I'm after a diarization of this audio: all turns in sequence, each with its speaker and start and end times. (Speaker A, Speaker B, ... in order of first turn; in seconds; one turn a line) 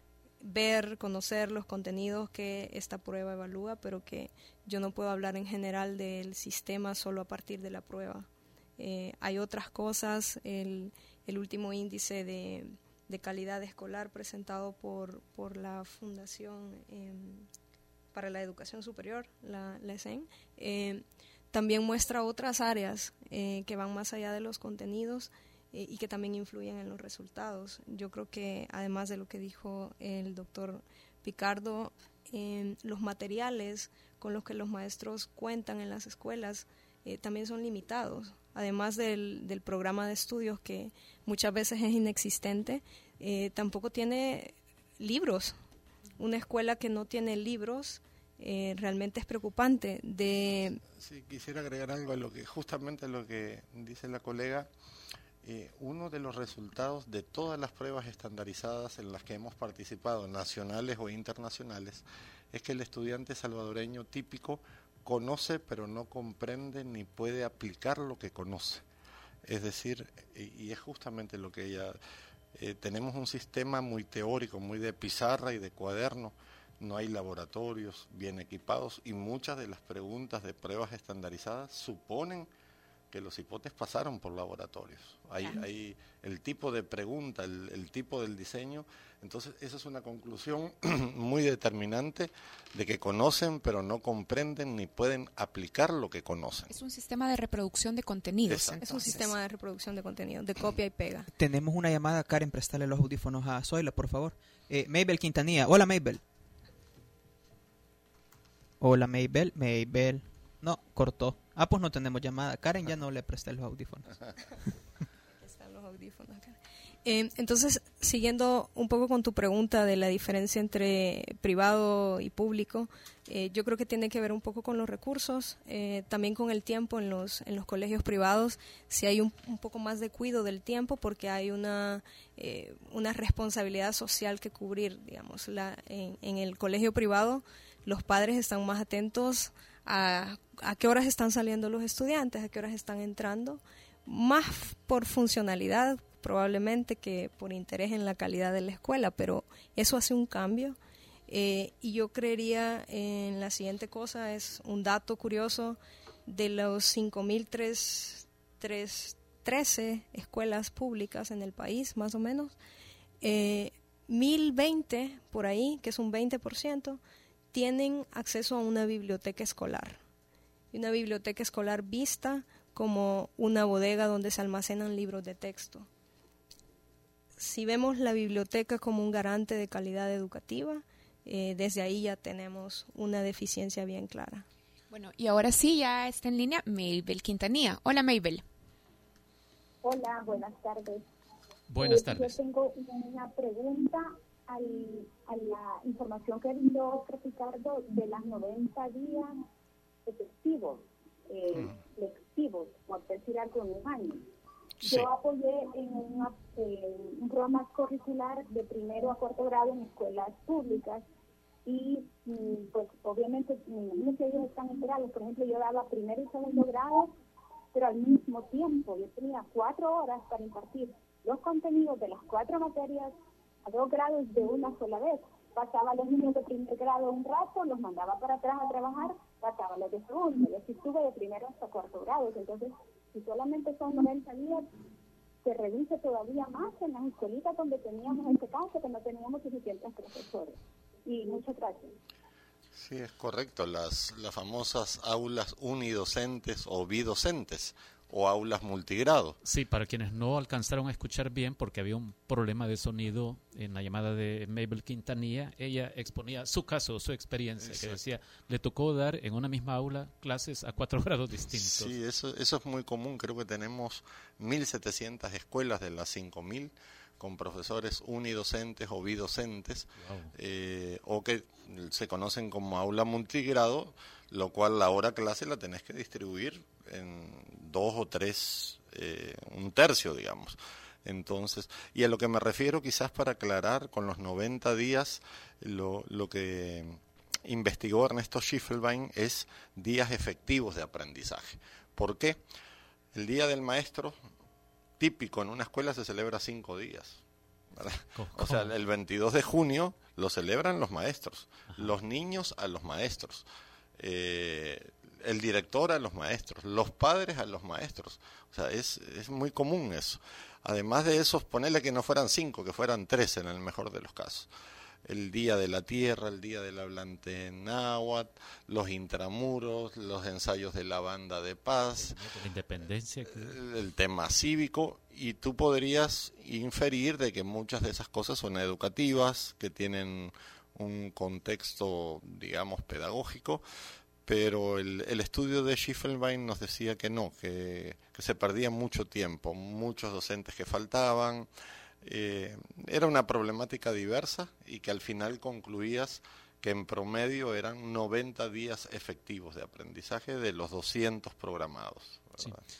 Speaker A: 0.4-17.5
Speaker A: 18.1-45.5
Speaker A: 46.2-50.8
Speaker B: 51.0-54.7
Speaker B: 55.4-68.8
Speaker B: 69.5-72.0
Speaker B: 72.5-82.5
Speaker B: 83.1-96.7
Speaker C: 96.7-99.3
Speaker B: 98.5-99.0
Speaker A: 98.8-101.3
Speaker D: 101.3-106.2
Speaker D: 108.8-114.1
Speaker A: 115.4-150.8
Speaker A: 151.3-162.6
Speaker A: 163.2-167.0
Speaker A: 167.5-170.0
Speaker A: 170.7-175.9
Speaker A: 177.4-184.4
Speaker C: 184.9-188.4
Speaker E: 189.8-191.0
Speaker F: 191.7-192.3
Speaker E: 191.8-199.4
Speaker E: 200.1-204.2
Speaker E: 204.8-211.0
Speaker E: 211.7-217.1
Speaker E: 217.7-223.1
Speaker E: 223.6-234.7
Speaker E: 235.4-241.9
Speaker B: 242.8-249.4
Speaker F: 249.4-261.9
Speaker B: 257.6-258.0
Speaker B: 261.5-292.4
Speaker F: 270.0-270.3
Speaker B: 293.1-294.1
Speaker B: 295.0-297.2
Speaker B: 297.8-303.4
Speaker F: 298.1-298.7
Speaker F: 301.7-301.9
Speaker B: 304.0-314.5
Speaker B: 315.1-322.4
Speaker F: 322.0-323.6
Speaker B: 323.3-333.6
Speaker B: 334.2-341.5
Speaker B: 342.0-352.6